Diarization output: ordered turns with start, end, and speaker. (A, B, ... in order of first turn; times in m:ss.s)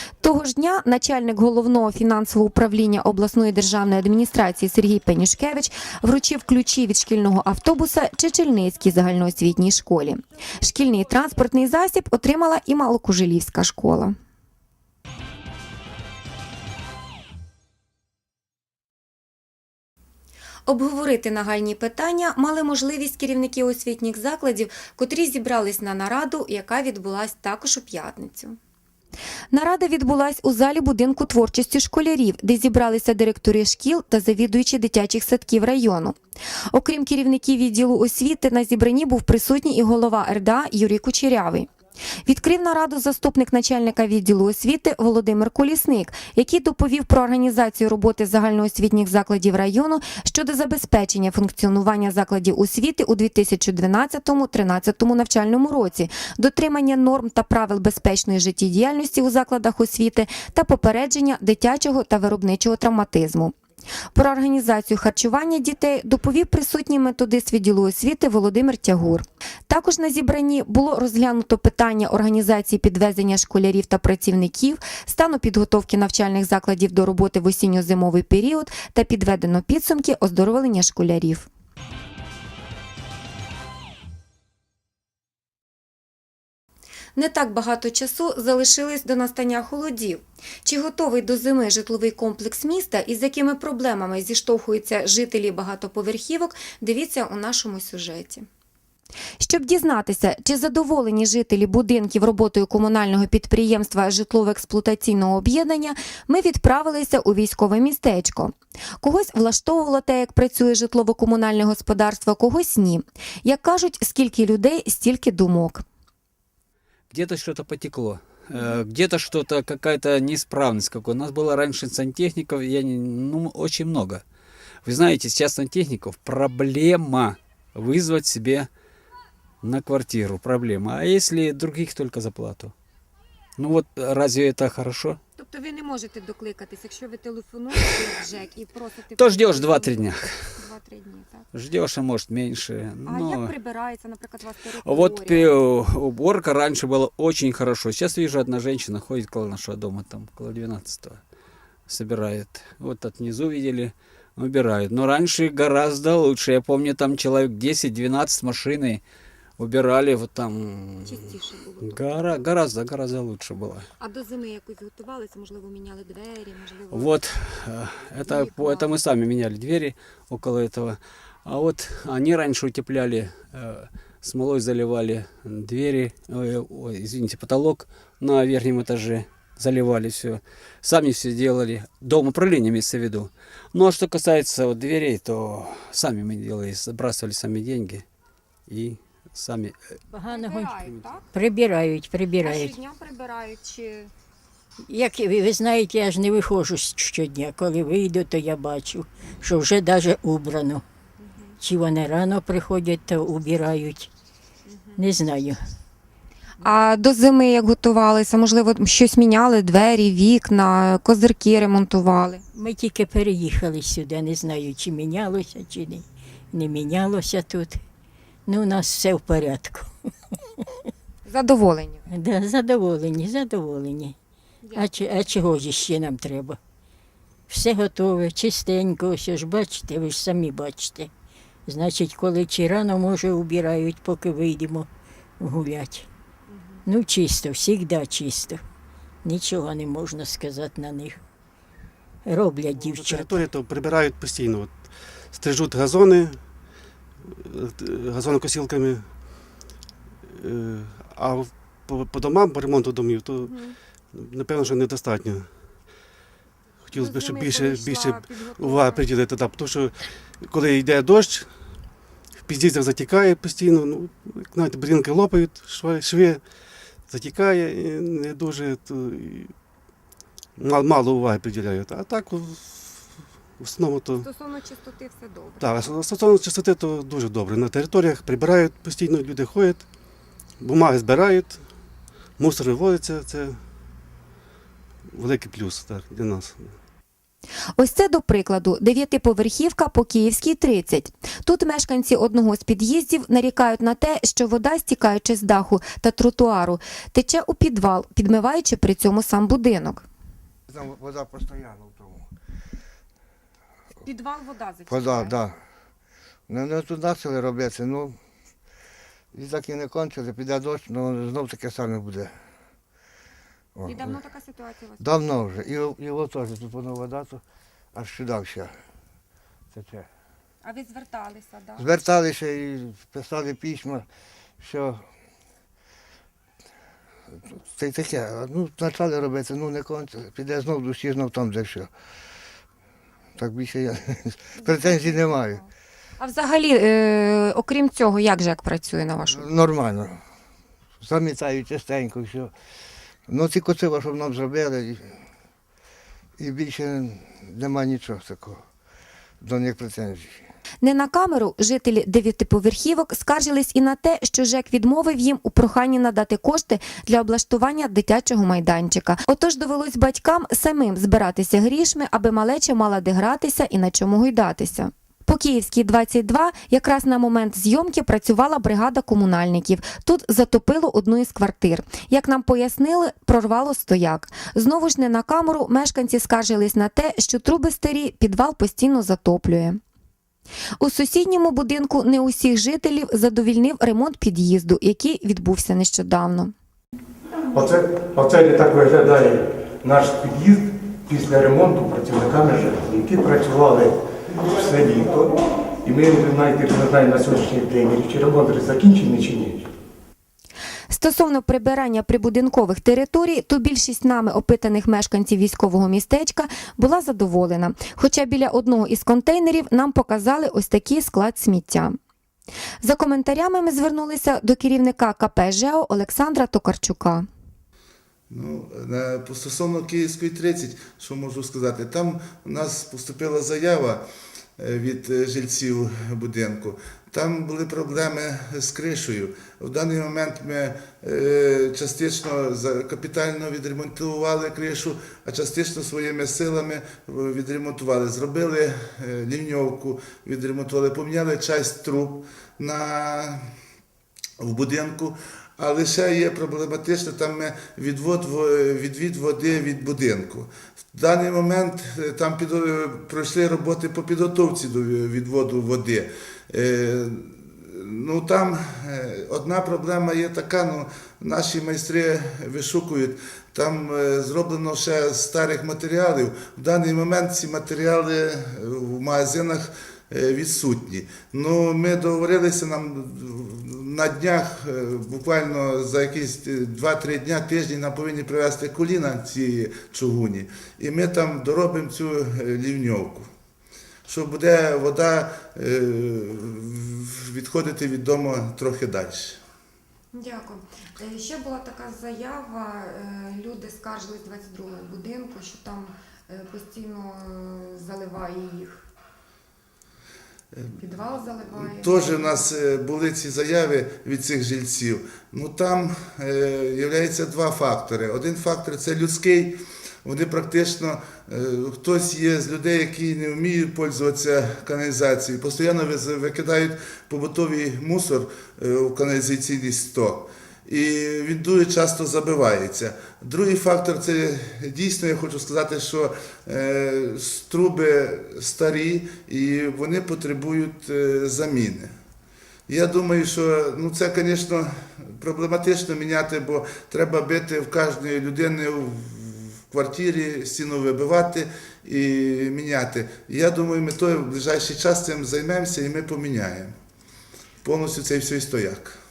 0:00.2-0:14.2 A
0:20.7-0:28.6 A
0:29.5-0:36.2 A
0:36.7-0:41.7 A
0:42.3-1:03.6 A
1:04.2-1:21.5 A
1:27.2-1:38.5 A
1:39.4-1:55.8 A
1:57.1-2:04.2 B
1:58.6-1:58.8 A
2:04.8-2:08.7 B
2:09.6-2:12.7 B
2:13.6-2:15.2 B
2:15.4-2:21.5 A
2:19.2-2:20.6 B
2:21.5-2:23.6 B
2:23.0-2:25.5 A
2:24.8-2:31.2 B
2:31.9-2:39.0 B
2:39.6-2:41.2 B
2:41.0-2:42.5 A
2:41.8-2:43.9 B
2:44.0-2:47.1 A
2:46.9-3:08.0 B
2:48.2-2:48.9 A
3:08.7-3:09.8 B
3:10.1-3:12.8 C
3:10.3-3:11.3 A
3:12.4-3:14.1 A
3:14.9-3:20.8 C
3:21.2-3:21.6 A
3:21.6-3:24.1 C
3:24.7-3:25.0 A
3:25.0-3:25.6 C
3:26.6-3:32.4 A
3:32.5-3:37.8 C
3:38.5-3:39.9 C
3:41.3-3:42.0 A
3:42.1-3:44.2 C
3:44.7-3:46.6 C
3:47.5-3:51.1 C
3:51.7-3:56.1 C
3:56.5-3:56.8 A
3:56.8-3:58.6 C
3:59.2-4:01.2 C
4:02.2-4:03.5 C
4:02.8-4:06.4 D
4:07.2-4:09.2 D
4:10.3-4:13.6 D
4:13.4-4:13.8 A
4:14.1-4:15.5 D
4:16.9-4:21.6 D
4:16.9-4:19.0 A
4:22.4-4:26.5 D
4:27.1-4:29.6 D
4:30.6-4:34.3 D
4:34.2-4:35.7 A
4:35.6-4:39.9 D
4:40.6-4:41.6 D
4:42.4-4:43.6 D
4:45.1-4:46.8 D
4:47.8-5:00.1 A
5:00.7-5:02.3 E
5:04.0-5:05.4 A
5:04.9-5:05.6 E
5:06.5-5:08.2 E
5:09.3-5:12.3 E
5:13.8-5:14.2 E
5:13.8-5:15.1 A
5:15.0-5:17.4 E
5:17.9-5:18.7 E
5:19.7-5:20.1 E
5:20.6-5:21.9 A
5:21.8-5:24.1 E
5:24.6-5:25.0 E
5:27.5-5:31.9 E
5:33.4-5:35.6 E
5:34.6-5:35.7 A
5:36.2-5:39.5 A
5:39.3-5:40.2 E
5:41.0-5:42.5 E
5:43.3-5:45.1 E
5:46.4-5:48.6 E
5:49.4-5:50.4 E
5:50.8-6:19.8 A
6:20.8-6:26.5 A
6:27.5-6:39.7 F
6:40.9-6:52.0 A
6:52.8-6:57.3 A
6:58.3-7:04.0 G
7:04.6-7:23.4 G
7:24.4-8:03.3 G
8:04.1-8:09.4 G
8:10.1-8:18.8 A
8:20.5-8:20.8 G
8:20.8-8:22.4 A
8:21.5-8:51.9 G
8:52.7-9:06.8 G
9:07.6-9:09.0 G